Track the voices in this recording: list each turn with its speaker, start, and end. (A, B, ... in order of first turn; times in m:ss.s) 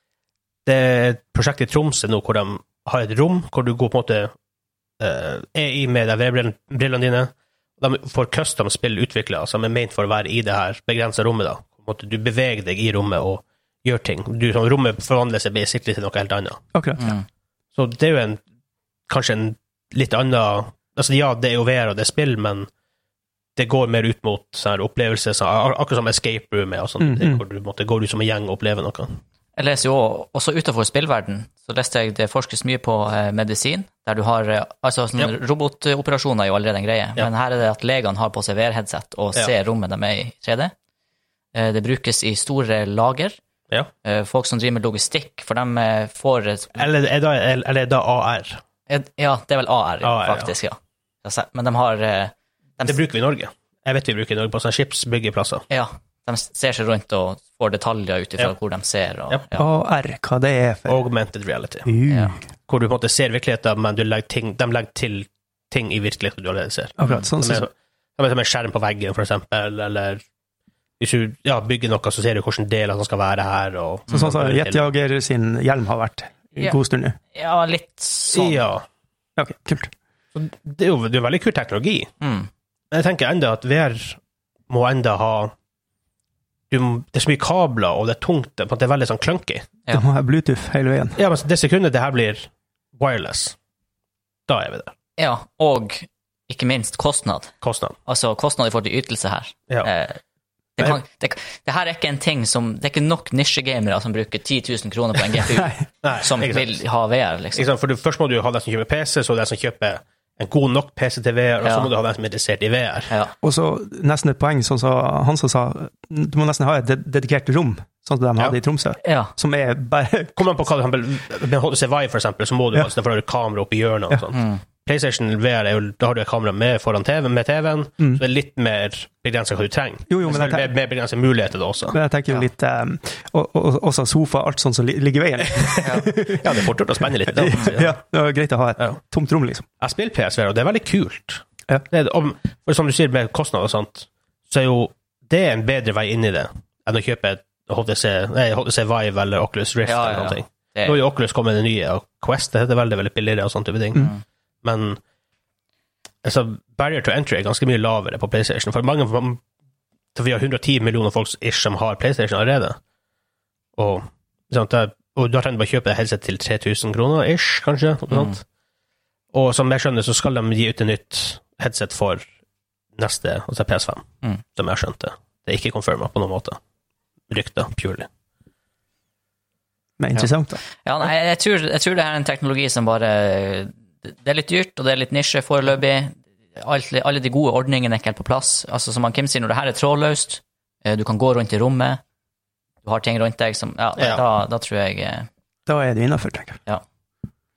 0:00.7-0:04.3 A
0:05.0-0:16.6 A
0:16.7-0:17.0 B
0:17.0-0:17.2 C
0:17.8-0:18.4 A
0:19.1-0:22.7 A
0:23.6-0:29.2 A
0:27.0-0:27.4 B
0:29.6-0:40.7 C
0:41.5-0:43.4 C
0:44.0-0:46.8 C
0:46.8-0:48.6 A
0:48.9-0:53.0 C
0:50.0-0:50.5 A
0:52.8-0:55.6 A
0:55.7-0:59.6 C
0:59.6-1:01.0 B
1:00.9-1:01.9 A
1:01.9-1:02.4 B
1:02.1-1:02.3 C
1:02.7-1:10.2 A
1:07.0-1:07.7 B
1:11.0-1:14.9 A
1:14.1-1:17.2 B
1:17.3-1:18.7 C
1:18.3-1:18.8 A
1:19.4-1:19.9 B
1:20.4-1:22.1 A
1:22.2-1:22.5 C
1:22.9-1:25.5 A
1:26.7-1:29.7 A
1:29.9-1:31.2 B
1:31.2-1:33.6 A
1:34.5-1:34.9 A
1:35.2-1:37.5 C
1:37.6-1:38.0 A
1:38.1-1:40.2 C
1:40.8-1:47.7 C
1:46.0-1:46.8 A
1:47.5-1:53.1 A
1:51.6-1:51.9 C
1:53.4-2:00.3 B
1:59.0-1:59.3 C
2:00.4-2:12.0 A
2:04.3-2:04.6 C
2:10.1-2:10.7 B
2:11.9-2:16.7 B
2:15.5-2:18.0 A
2:15.8-2:16.1 C
2:17.3-2:19.6 B
2:19.8-2:34.1 A
2:29.9-2:31.0 C
2:34.0-2:34.2 C
2:34.6-2:35.0 A
2:36.2-2:39.4 A
2:40.2-2:42.8 A
2:43.8-2:48.4 A
2:48.1-2:48.4 C
2:49.3-2:52.3 A
2:53.0-2:56.6 A
2:57.3-2:58.1 A
3:00.0-3:00.6 B
3:00.8-3:12.0 C
3:12.8-3:15.3 C
3:14.0-3:14.2 A
3:15.7-3:16.6 B